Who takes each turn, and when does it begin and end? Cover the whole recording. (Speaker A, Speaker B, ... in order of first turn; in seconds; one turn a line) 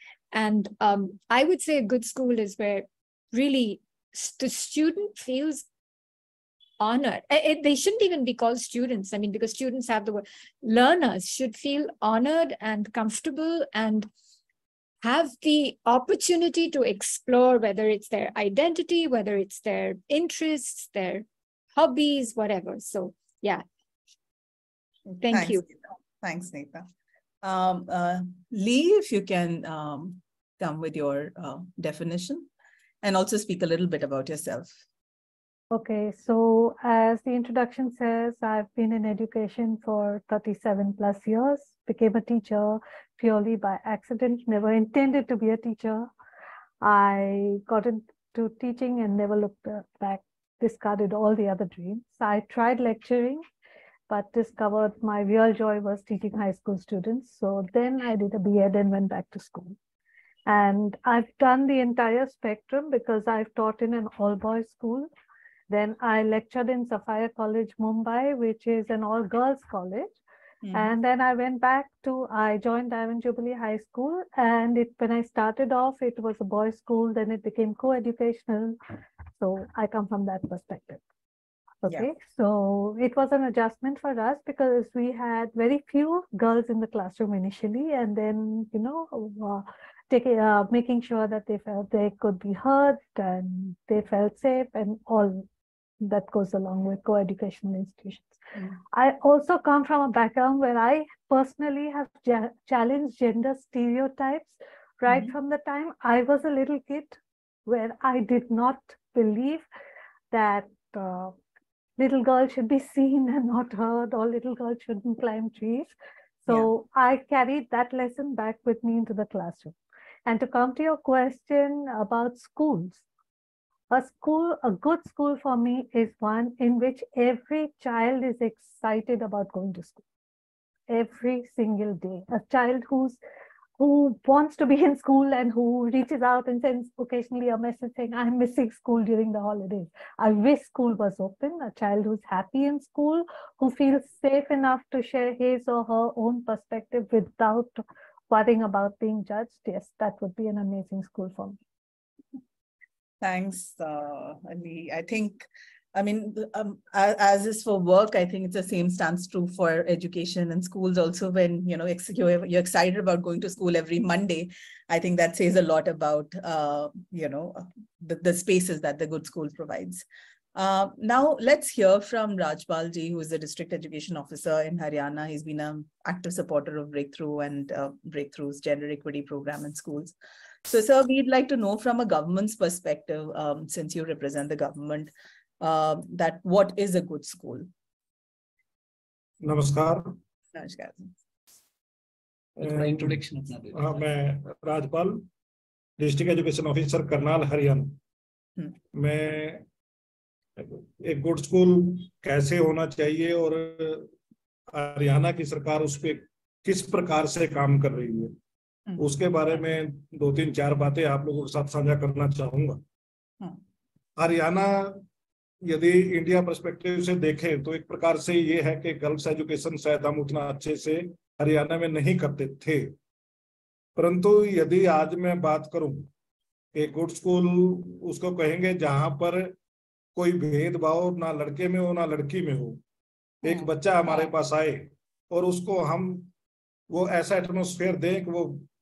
Speaker A: 0.3-5.7
Speaker A: 6.8-14.1
Speaker A: 15.0-23.6
Speaker B: 25.1-26.9
Speaker A: 25.2-25.6
Speaker B: 27.4-32.5
Speaker B: 33.0-34.8
Speaker C: 35.7-46.1
Speaker C: 46.8-53.4
Speaker C: 54.1-59.7
Speaker C: 60.5-65.1
Speaker C: 65.7-70.1
Speaker B: 70.6-70.9
Speaker C: 70.7-78.8
Speaker C: 79.4-81.0
Speaker C: 81.8-95.5
Speaker C: 96.0-98.4
Speaker C: 98.9-109.6
Speaker B: 105.1-105.3
Speaker C: 110.3-111.3
Speaker C: 112.0-119.7
Speaker C: 120.2-123.0
Speaker C: 123.9-130.0
Speaker C: 130.9-133.2
Speaker C: 133.8-147.8
Speaker C: 148.3-151.6
Speaker B: 153.2-170.0
Speaker B: 170.5-180.1
Speaker B: 180.7-187.7
Speaker D: 189.4-190.1
Speaker B: 190.5-191.1
Speaker D: 192.6-195.2
Speaker D: 196.0-198.0
Speaker D: 198.9-199.6
Speaker D: 200.6-204.1
Speaker D: 204.7-208.3
Speaker D: 209.0-212.8
Speaker D: 214.2-215.0
Speaker D: 215.7-222.9
Speaker D: 224.0-226.1
Speaker D: 226.8-229.5
Speaker D: 230.2-232.8
Speaker B: 233.4-234.3
Speaker D: 233.4-236.3
Speaker D: 236.9-238.7